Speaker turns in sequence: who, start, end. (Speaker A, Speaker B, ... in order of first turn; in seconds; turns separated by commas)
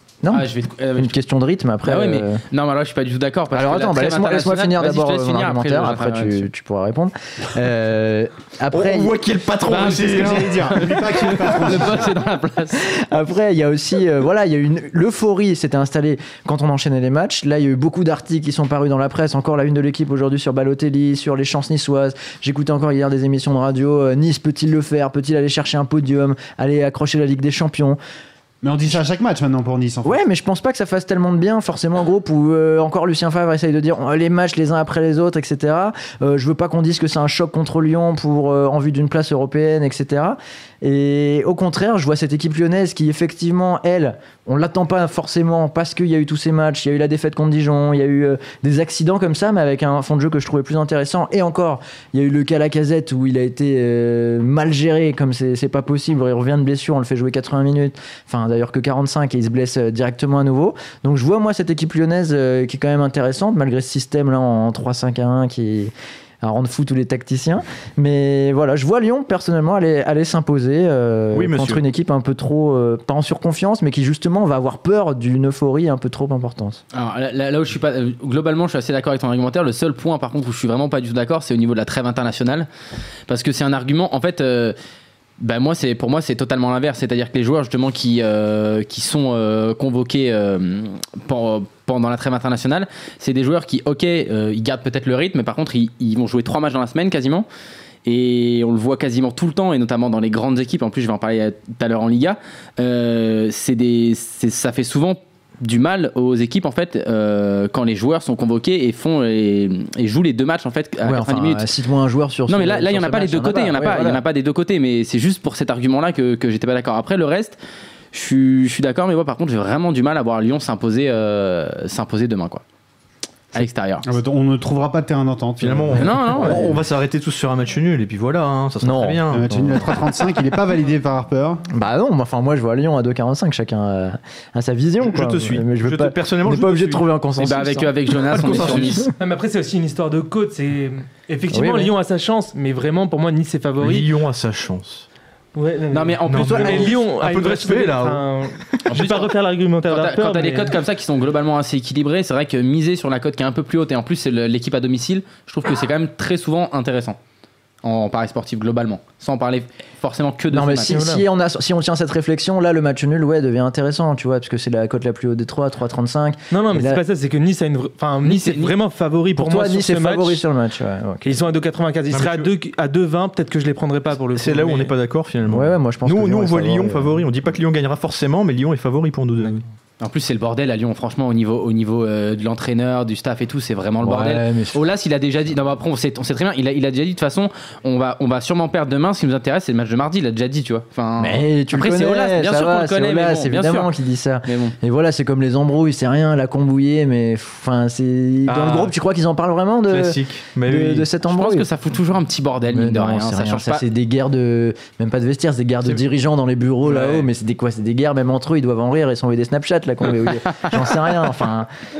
Speaker A: 0.2-2.4, Speaker B: 0.3-1.1, Speaker B: 1.8-6.5, Speaker A: 3.5-9.2, Speaker C: 8.7-10.9, Speaker D: 9.7-12.1, Speaker B: 9.7-12.9, Speaker A: 12.8-28.0, Speaker D: 28.6-30.2, Speaker A: 30.0-76.8, Speaker C: 71.3-71.8, Speaker B: 76.9-82.7, Speaker B: 83.3-84.7, Speaker B: 85.4-97.5, Speaker B: 98.0-111.7, Speaker A: 111.0-114.2, Speaker B: 112.5-117.6, Speaker B: 118.1-122.6, Speaker B: 123.5-124.0, Speaker D: 124.0-126.7, Speaker C: 125.6-129.7, Speaker B: 126.0-126.6, Speaker A: 126.4-126.7, Speaker A: 128.8-130.0, Speaker D: 129.3-131.6, Speaker A: 131.7-139.0, Speaker C: 135.0-137.1, Speaker B: 137.4-139.1, Speaker C: 138.3-139.1, Speaker E: 139.2-144.1, Speaker A: 141.5-141.9, Speaker C: 143.8-145.1, Speaker E: 145.5-150.7, Speaker B: 145.9-146.9, Speaker C: 146.3-148.8, Speaker B: 148.9-149.3, Speaker B: 149.8-157.2, Speaker B: 157.8-161.2, Speaker A: 160.5-167.0, Speaker E: 166.5-170.4, Speaker B: 168.2-168.7, Speaker A: 169.3-171.3, Speaker E: 171.2-174.9, Speaker C: 172.1-172.5, Speaker C: 174.3-179.6, Speaker A: 175.5-177.2, Speaker B: 180.0-193.9, Speaker A: 184.0-184.8, Speaker A: 191.2-201.7, Speaker B: 194.4-194.7, Speaker C: 198.5-198.9, Speaker C: 199.9-201.1, Speaker B: 201.3-203.8, Speaker A: 202.7-211.7, Speaker C: 206.8-207.2